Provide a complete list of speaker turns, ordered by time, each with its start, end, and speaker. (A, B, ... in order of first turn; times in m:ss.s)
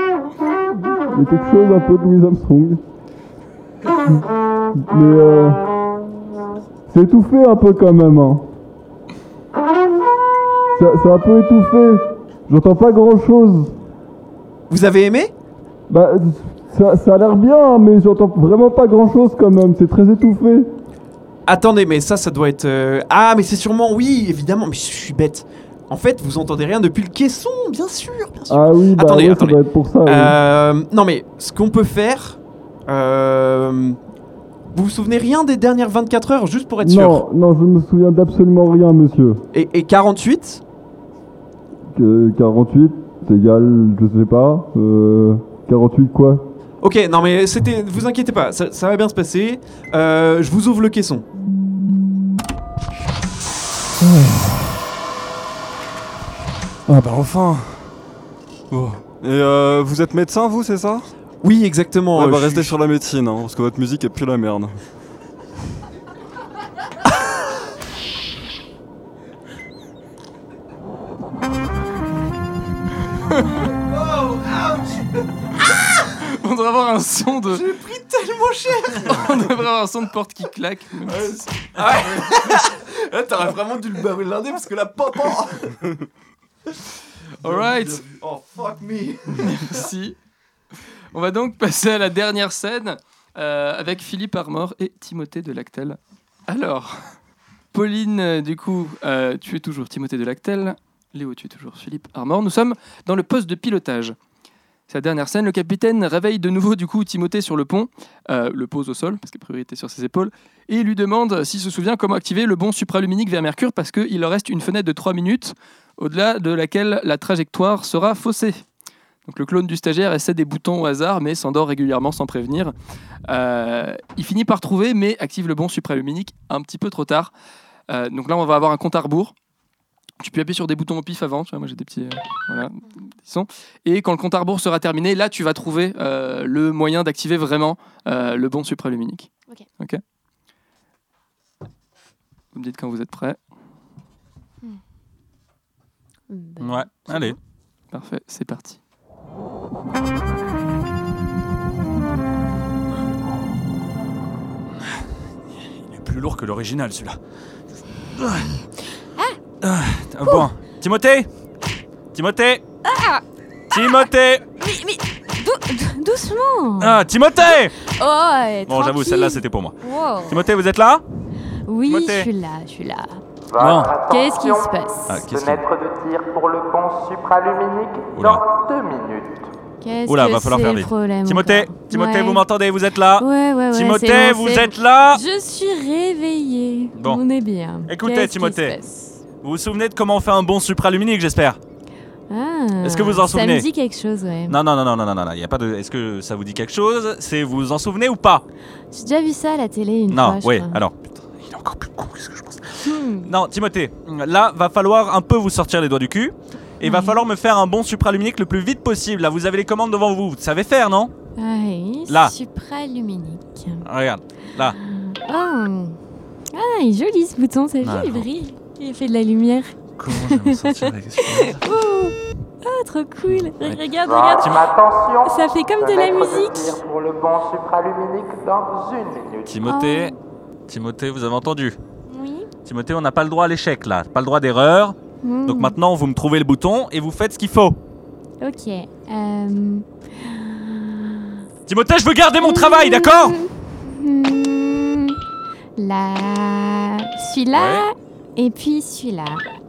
0:01.1-0:02.8 A
0:04.8-0:05.6 A
0:06.9-0:08.4 A
0:10.7-0:13.7 A
0:14.7-0:15.3 B
0:15.9-0:20.7 A
0:21.4-0:34.0 B
0:28.5-0:30.4 A
0:34.7-0:37.2 B
0:36.8-0:39.4 A
0:39.5-0:40.6 B
0:41.9-0:46.4 A
0:46.8-0:51.2 B
0:54.0-0:54.8 A
0:56.9-0:57.9 C
0:58.8-1:01.0 C
1:01.4-1:02.7 B
1:02.1-1:04.8 C
1:13.1-1:13.7 D
1:13.8-1:15.0 B
1:15.9-1:17.6 D
1:17.5-1:19.4 B
1:19.0-1:21.5 D
1:21.1-1:25.8 B
1:27.4-1:28.0 D
1:27.4-1:29.8 B
1:29.4-1:30.2 D
1:31.1-1:37.0 D
1:37.7-1:44.1 D
1:44.9-1:58.6 D
1:59.2-2:02.7 D
2:03.3-2:07.3 D
2:07.9-2:09.3 D
2:10.2-2:20.0 D
2:22.5-2:23.4 D
2:26.3-2:27.4 E
2:26.6-2:27.4 F
2:27.9-2:28.8 D
2:35.8-2:37.2 F
2:38.1-2:38.6 F
2:39.6-2:41.3 F
2:42.1-2:42.6 F
2:42.8-2:44.1 E
2:43.7-2:44.4 F
2:44.6-2:50.4 E
2:46.8-2:47.8 F
2:48.7-2:52.3 F
2:51.5-2:53.2 E
2:53.5-2:59.5 G
2:53.6-2:53.9 F
2:54.0-2:55.2 E
2:55.1-2:55.6 F
2:58.1-2:58.4 F
2:59.8-3:02.4 E
3:00.0-3:05.2 F
3:03.2-3:09.2 E
3:07.0-3:07.2 F
3:07.9-3:08.8 F
3:09.4-3:11.6 F
3:12.3-3:14.6 E
3:12.8-3:13.6 F
3:14.5-3:18.4 F
3:18.9-3:20.8 E
3:20.1-3:31.1 F
3:22.8-3:23.3 E
3:26.8-3:27.2 E
3:31.4-3:33.8 E
3:32.1-3:32.3 F
3:33.8-3:34.8 F
3:34.8-3:36.0 E
3:36.5-3:44.6 E
3:37.8-3:38.3 F
3:40.0-3:41.6 F
3:43.3-3:43.8 F
3:44.0-3:49.5 G
3:45.2-3:46.8 E
3:49.5-3:50.1 F
3:49.6-3:50.2 E
3:50.7-3:51.8 F
3:52.1-3:52.5 E
3:52.6-3:57.8 F
3:55.2-3:55.7 E
3:58.4-4:01.4 E
4:01.7-4:03.4 F
4:02.4-4:05.2 E
4:05.8-4:09.4 E
4:07.5-4:07.9 F